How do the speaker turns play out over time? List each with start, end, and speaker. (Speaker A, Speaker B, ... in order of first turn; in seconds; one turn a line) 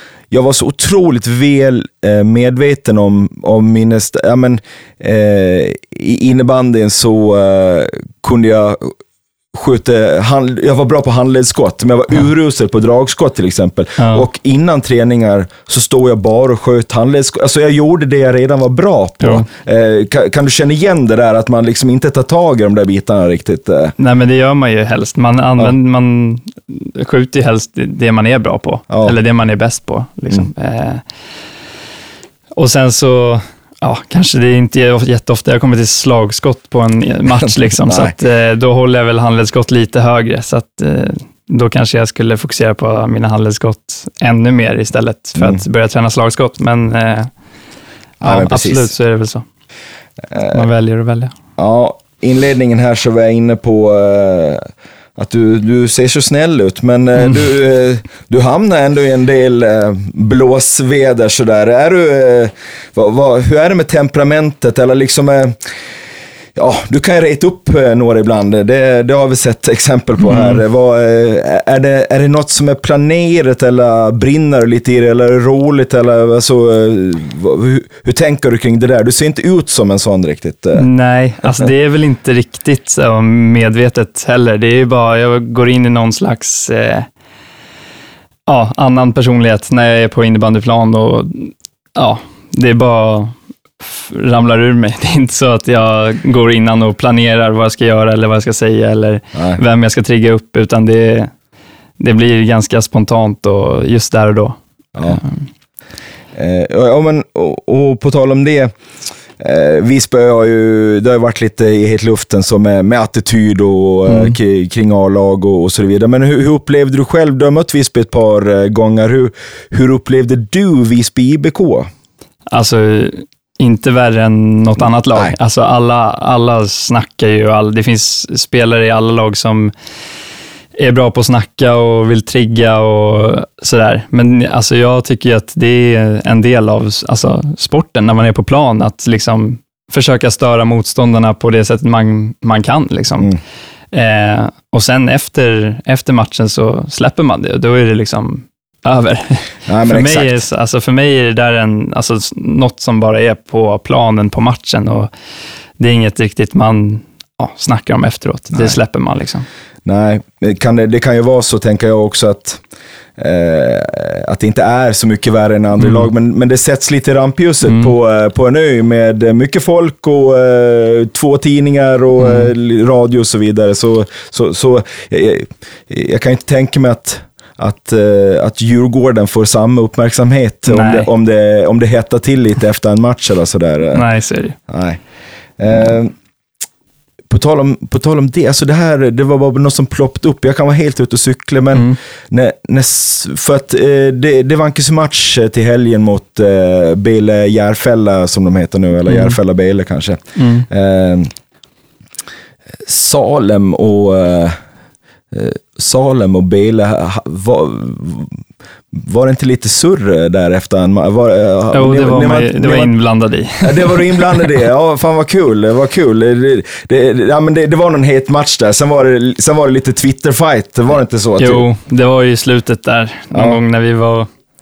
Speaker A: 0.3-8.9
Speaker A: 9.5-23.9
Speaker B: 14.0-14.3
Speaker B: 19.2-19.5
Speaker B: 24.0-31.0
Speaker A: 28.9-29.2
Speaker B: 32.6-47.3
Speaker A: 37.4-38.1
Speaker A: 48.2-48.9
Speaker B: 48.2-49.5
Speaker A: 50.3-50.6
Speaker B: 50.4-51.3
Speaker A: 51.6-65.7
Speaker A: 66.5-80.9
Speaker B: 70.2-70.6
Speaker B: 80.7-87.1
Speaker B: 88.5-101.3
Speaker A: 99.3-99.6
Speaker B: 102.0-105.5
Speaker A: 105.0-105.2
Speaker A: 106.3-108.7
Speaker A: 109.4-121.9
Speaker B: 114.1-114.4
Speaker B: 122.5-129.7
Speaker A: 124.8-125.3
Speaker B: 130.8-143.3
Speaker B: 143.9-155.1
Speaker A: 149.7-150.4
Speaker B: 155.8-159.5
Speaker A: 159.8-162.6
Speaker A: 163.2-184.1
Speaker B: 165.8-166.1
Speaker B: 167.7-167.9
Speaker B: 172.2-172.5
Speaker B: 180.7-181.1
Speaker B: 183.9-184.6
Speaker A: 184.7-185.0
Speaker A: 185.6-186.2
Speaker A: 187.3-201.3
Speaker B: 191.7-192.0
Speaker B: 199.1-199.4
Speaker B: 200.4-200.7
Speaker A: 202.9-204.6
Speaker A: 205.3-208.4
Speaker A: 208.9-213.0
Speaker B: 211.7-214.4
Speaker A: 213.6-221.7
Speaker B: 221.4-224.3
Speaker A: 223.3-223.6